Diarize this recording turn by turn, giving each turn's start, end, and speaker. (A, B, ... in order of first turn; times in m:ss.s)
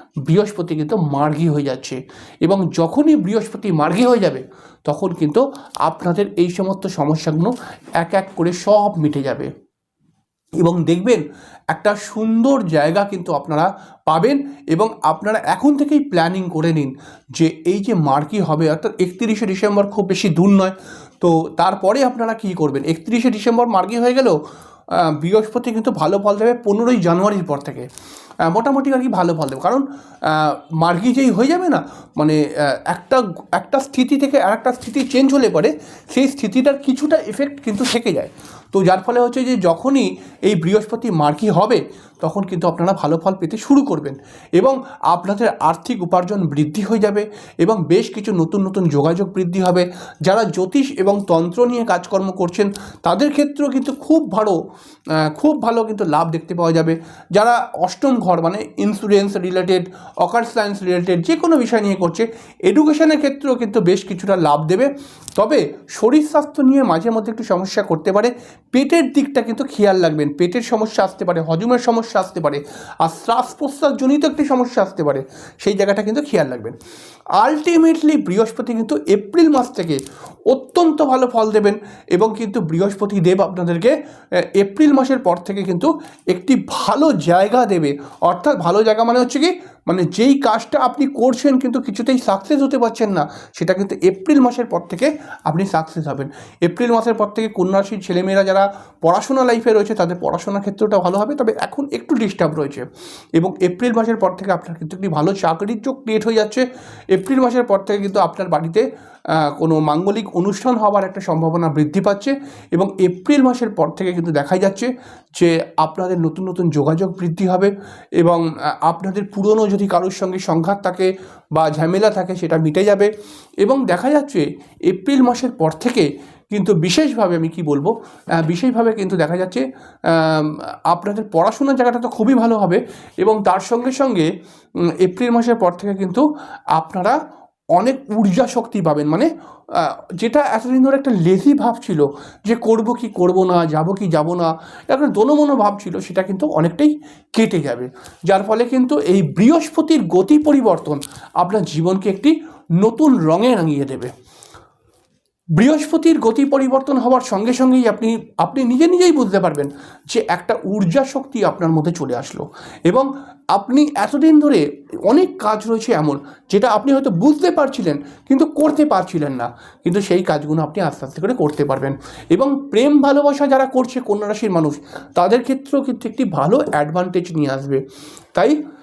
0:00.3-0:09.5 A
0:10.6-0:24.4 A
0:24.9-0:27.9 A
0:28.4-0:54.6 A
0:55.2-1:16.8 A
1:17.4-2:03.1 A
2:03.6-2:14.3 A
2:15.0-2:17.2 A
2:17.8-2:34.1 A
2:35.6-2:57.8 A